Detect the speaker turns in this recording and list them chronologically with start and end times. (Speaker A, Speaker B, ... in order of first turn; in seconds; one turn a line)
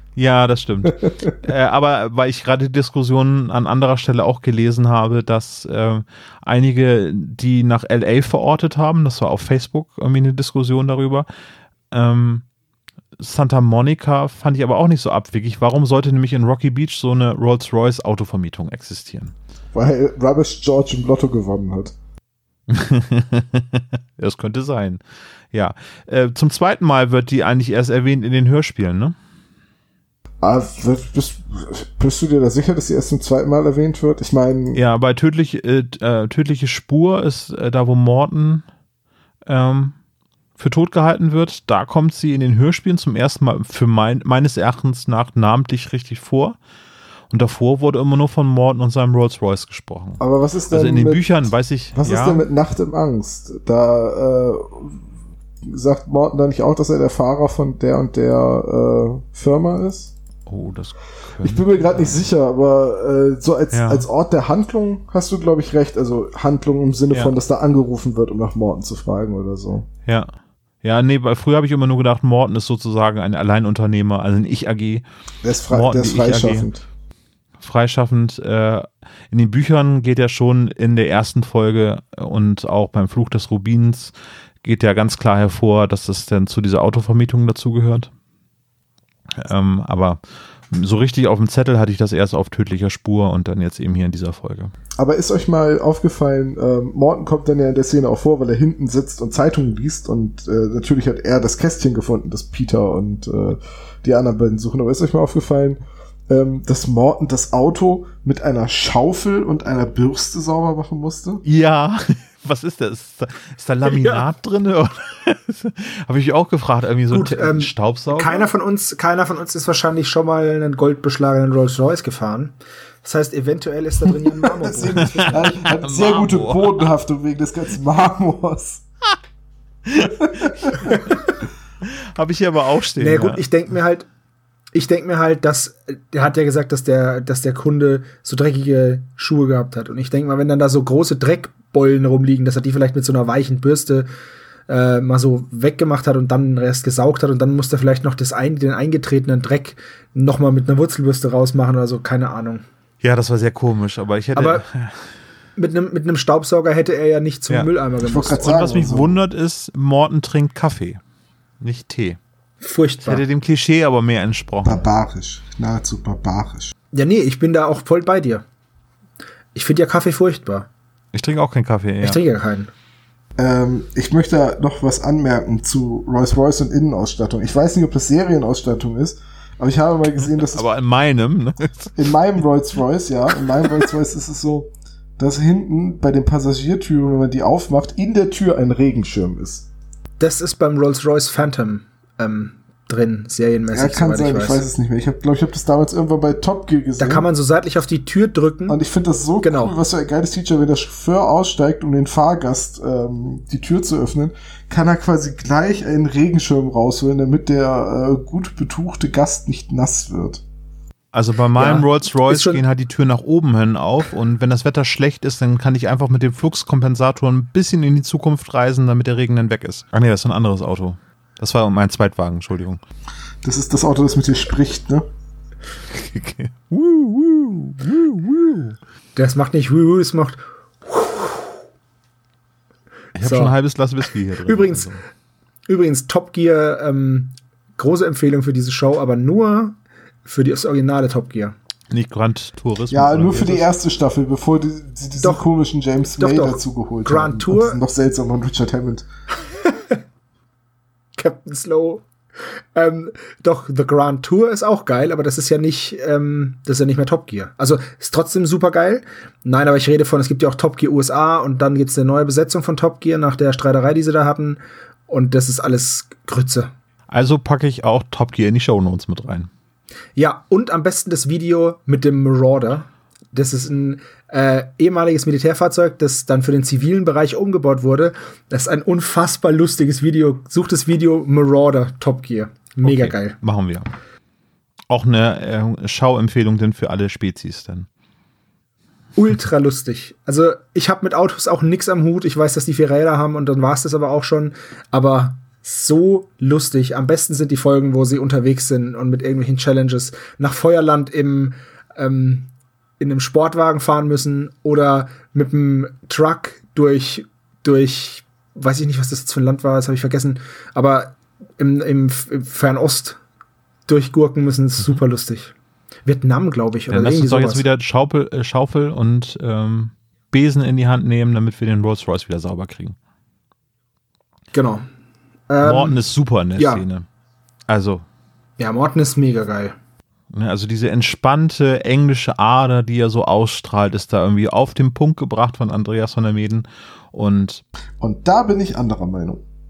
Speaker A: 0.2-11.3
Speaker B: 1.0-1.3
Speaker A: 11.9-12.5
Speaker A: 13.2-19.3
Speaker B: 19.7-21.9
Speaker A: 22.7-29.1
Speaker B: 30.4-34.8
Speaker A: 34.7-38.6
Speaker A: 39.5-40.0
Speaker A: 40.6-46.6
Speaker A: 47.3-52.5
Speaker B: 50.2-51.3
Speaker B: 52.0-55.0
Speaker B: 55.6-60.1
Speaker A: 60.5-62.2
Speaker B: 61.4-69.9
Speaker A: 63.7-64.1
Speaker A: 70.1-70.3
Speaker A: 70.8-75.0
Speaker B: 75.4-76.8
Speaker A: 75.7-76.7
Speaker A: 77.6-88.1
Speaker A: 89.4-94.7
Speaker B: 95.0-111.4
Speaker A: 111.5-118.5
Speaker C: 113.9-114.2
Speaker C: 117.1-125.6
Speaker B: 124.4-128.8
Speaker A: 125.1-126.9
Speaker A: 129.9-131.0
Speaker B: 130.2-130.9
Speaker A: 132.2-133.4
Speaker C: 133.0-134.1
Speaker C: 134.7-144.1
Speaker C: 144.7-152.6
Speaker A: 153.0-155.0
Speaker C: 154.4-154.6
Speaker C: 155.6-158.4
Speaker B: 158.0-159.2
Speaker A: 158.4-161.0
Speaker A: 161.6-162.2
Speaker C: 162.6-163.2
Speaker A: 163.1-164.8
Speaker B: 164.7-166.7
Speaker C: 166.9-168.4
Speaker C: 169.6-170.7
Speaker A: 171.1-172.2
Speaker C: 172.0-172.7
Speaker B: 173.4-180.7
Speaker A: 180.5-182.0
Speaker B: 182.0-189.7
Speaker C: 190.2-194.6
Speaker B: 193.7-197.2
Speaker C: 197.0-198.8
Speaker B: 198.7-210.4
Speaker C: 199.4-199.8
Speaker A: 211.1-222.8
Speaker C: 211.6-212.6
Speaker B: 223.4-225.1
Speaker A: 225.9-228.8
Speaker C: 229.2-231.6
Speaker A: 233.2-235.0
Speaker C: 233.2-233.5
Speaker C: 234.4-234.9
Speaker C: 235.7-241.6
Speaker A: 241.9-243.7
Speaker B: 242.9-249.1
Speaker C: 246.2-247.8
Speaker C: 249.5-250.0
Speaker C: 251.2-252.1
Speaker C: 252.8-266.7
Speaker A: 267.1-269.5
Speaker C: 270.2-283.4
Speaker A: 282.8-283.9
Speaker A: 284.9-287.9
Speaker C: 289.2-302.5
Speaker C: 303.0-313.2
Speaker C: 313.9-315.5
Speaker C: 316.1-317.6
Speaker A: 316.9-323.0
Speaker C: 324.5-324.9
Speaker C: 325.5-326.0
Speaker A: 325.6-327.1
Speaker C: 326.6-326.8
Speaker A: 327.7-328.0
Speaker C: 328.6-329.8
Speaker A: 330.3-337.6
Speaker B: 338.0-339.4